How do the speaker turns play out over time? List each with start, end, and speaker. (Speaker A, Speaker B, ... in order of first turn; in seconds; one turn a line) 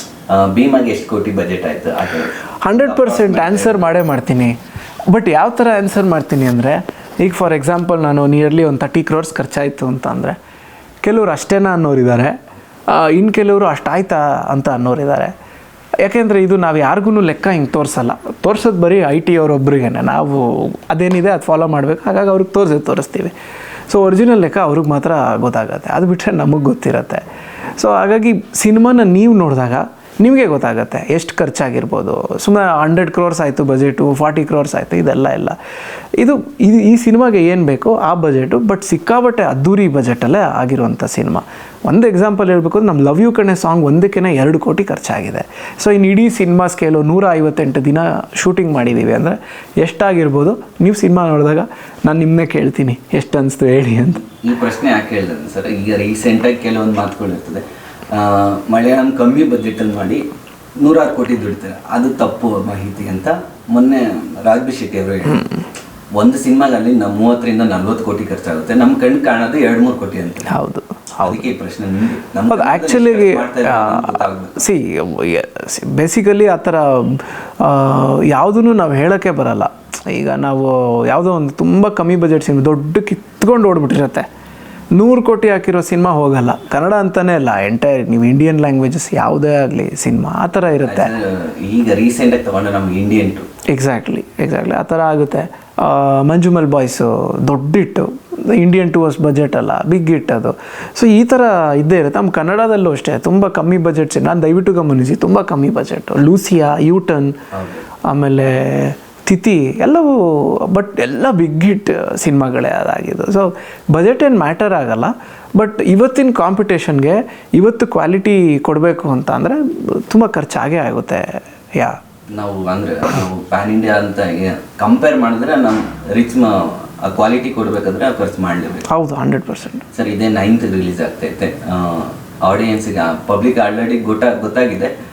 Speaker A: 0.3-4.0
Speaker B: 2.6-4.6
Speaker B: 5.1-10.4
Speaker B: 11.0-12.3
Speaker B: 12.9-15.3
Speaker B: 16.0-23.3
Speaker B: 23.9-27.2
Speaker B: 27.8-35.6
Speaker B: 36.2-54.2
Speaker A: 54.4-60.2
Speaker A: 60.8-65.5
Speaker A: 66.2-70.6
Speaker B: 70.5-71.5
Speaker A: 71.2-74.7
Speaker B: 72.5-84.2
Speaker B: 84.9-91.1
Speaker A: 90.8-93.5
Speaker B: 93.7-107.4
Speaker A: 107.5-107.8
Speaker B: 108.0-122.0
Speaker A: 122.3-128.9
Speaker B: 128.9-129.8
Speaker A: 129.9-134.9